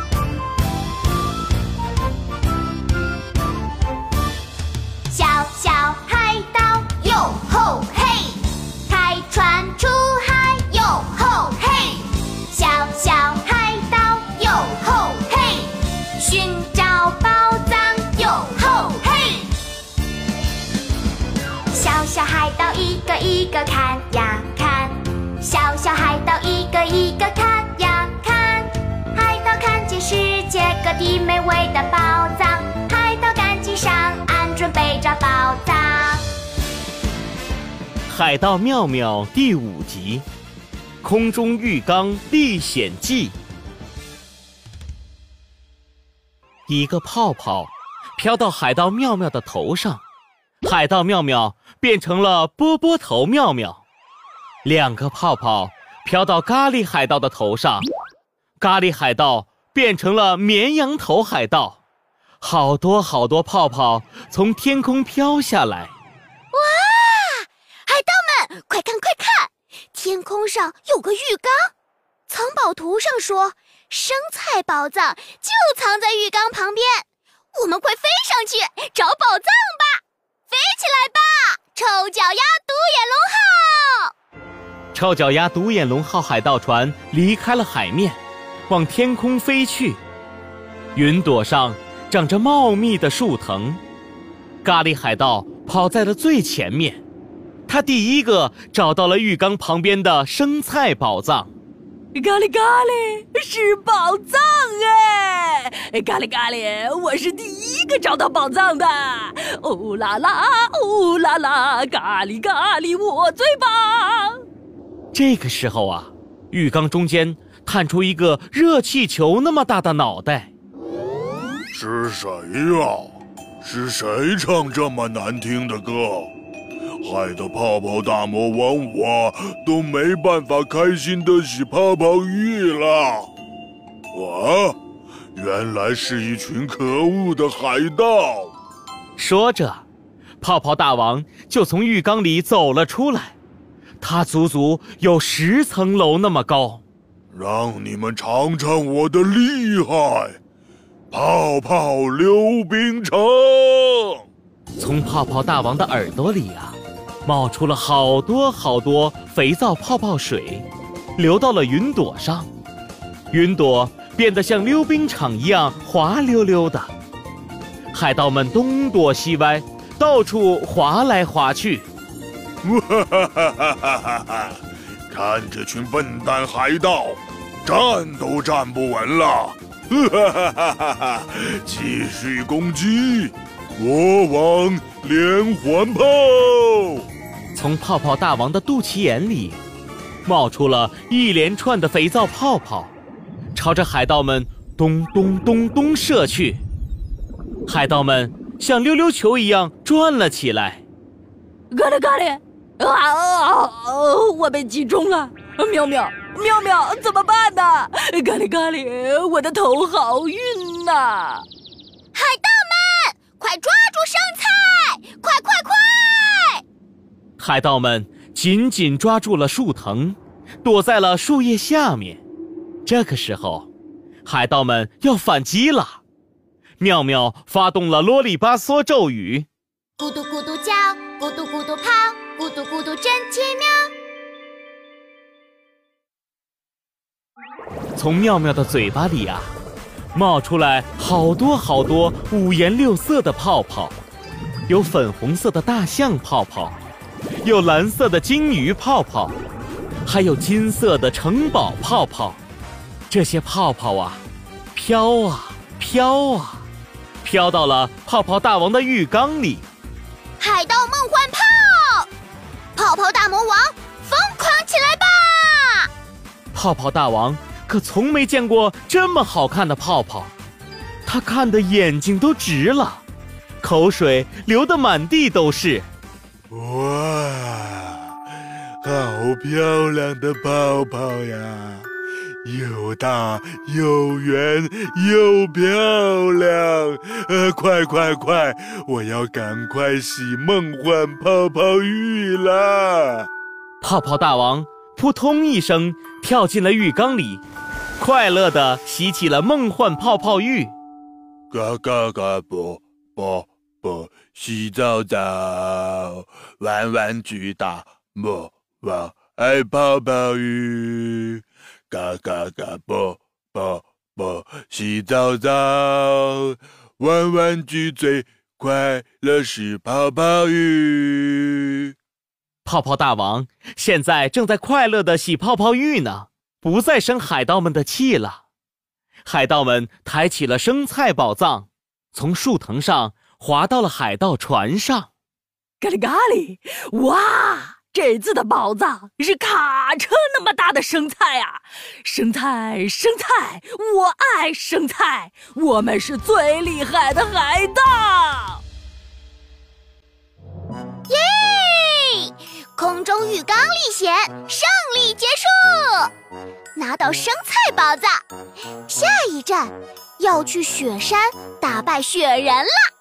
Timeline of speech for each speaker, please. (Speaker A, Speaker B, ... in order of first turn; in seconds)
Speaker A: 5.1-19.5, 21.7-36.3, 66.5-71.7, 72.3-84.1, 212.1-216.6, 230.0-233.9, 260.4-262.1, 262.7-265.9, 351.1-356.1, 356.8-358.2, 358.9-362.7
Speaker B: 38.1-40.2, 41.0-43.4, 46.7-50.0, 50.6-53.8, 54.6-57.9, 58.6-61.8, 62.4-65.9, 84.9-90.0, 90.9-93.8, 94.6-97.0, 97.7-101.5, 115.1-120.5, 139.2-139.8, 140.4-143.3, 144.0-146.8, 154.8-162.5, 163.3-166.9, 167.9-171.8, 187.5-189.6, 190.2-192.9, 193.5-196.6, 197.7-200.8, 217.4-222.2, 222.8-223.7, 224.2-226.0, 226.8-229.5, 237.9-239.5, 240.1-243.9, 244.7-246.8, 247.4-249.3, 250.0-252.4, 253.1-254.2, 254.7-256.6, 257.2-259.6, 266.5-270.3, 271.1-273.0, 273.6-275.9, 293.8-297.4, 298.0-300.7, 322.6-328.4, 329.2-335.1
Speaker C: 102.1-114.4, 201.7-211.4, 335.8-348.6
Speaker D: 121.7-123.1, 123.6-126.3, 127.0-133.3, 134.1-134.8, 135.3-138.5, 147.3-150.4, 151.1-154.2, 172.6-174.6, 175.1-187.1, 276.5-278.0, 278.8-281.9, 282.4-293.3, 301.5-321.9